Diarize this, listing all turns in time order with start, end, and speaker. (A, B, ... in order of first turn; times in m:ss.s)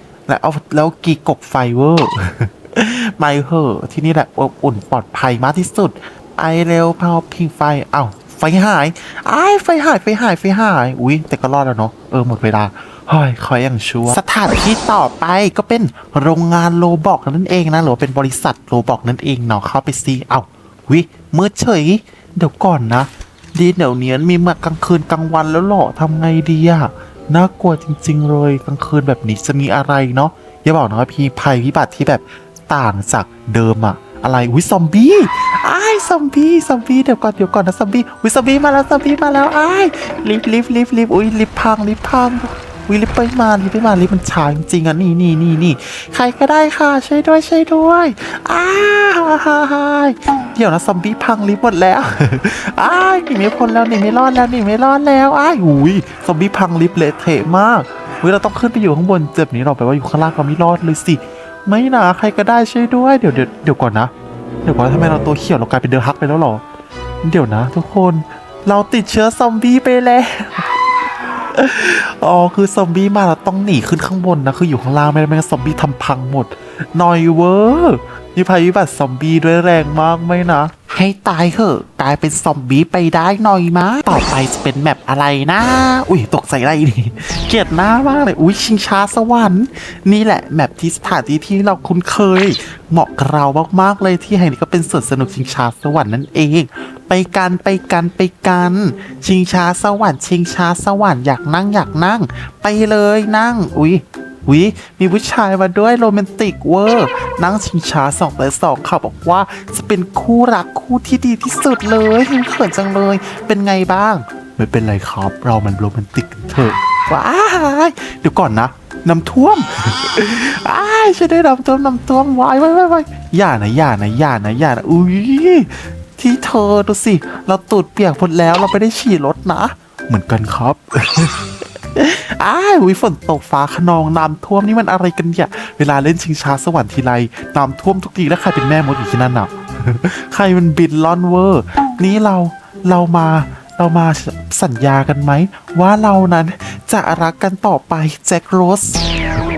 0:00.3-1:04.1 A
1:04.6-1:06.6 A
1:07.2-1:10.7 A
1:11.5-2:29.1 A